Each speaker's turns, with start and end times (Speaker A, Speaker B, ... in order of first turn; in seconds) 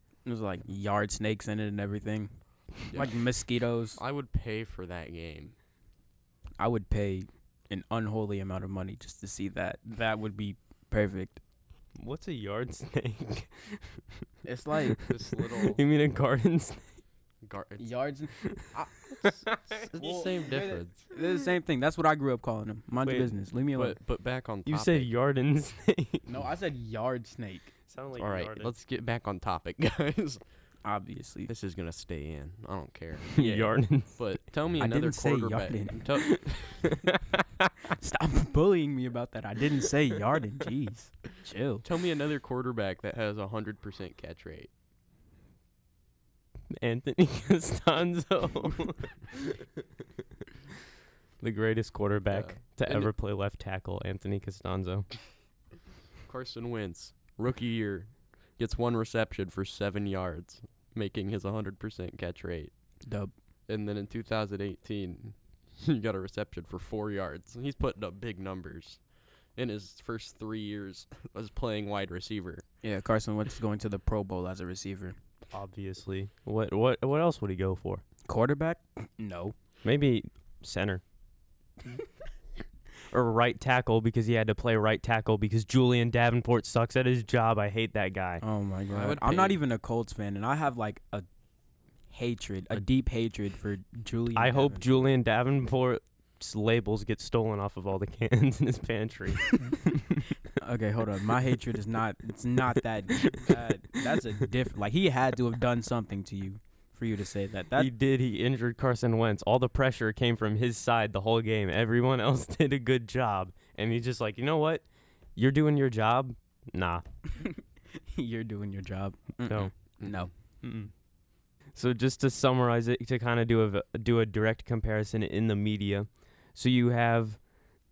Speaker A: 0.2-4.0, 6.6-11.4, 14.4-15.0, 17.8-19.3, 20.0-24.0, 26.3-27.7, 30.8-31.5, 33.4-33.7, 34.8-36.1, 38.0-41.8, 63.0-63.3, 72.8-75.2, 78.2-79.5, 88.4-91.2, 92.1-94.9, 100.6-107.9, 118.1-120.8
Speaker B: 2.9-3.2, 3.9-5.5, 15.1-15.8, 17.4-17.9, 19.8-21.0, 23.7-25.1, 28.1-30.4, 31.5-33.4, 34.1-36.9, 41.8-44.7, 52.3-53.1, 56.2-62.7, 63.7-69.0, 69.5-72.6, 88.9-89.6, 120.0-120.2
Speaker C: 12.0-14.2, 15.0-16.9, 18.4-18.7, 19.2-19.8, 23.0-23.3, 24.6-26.2, 27.9-28.7, 33.4-34.2, 46.7-49.6, 51.4-55.2, 75.5-78.0, 79.8-81.0, 83.1-88.4, 94.3-100.2, 103.2-103.5, 107.8-114.8, 115.3-117.0, 119.5-119.7, 121.7-127.4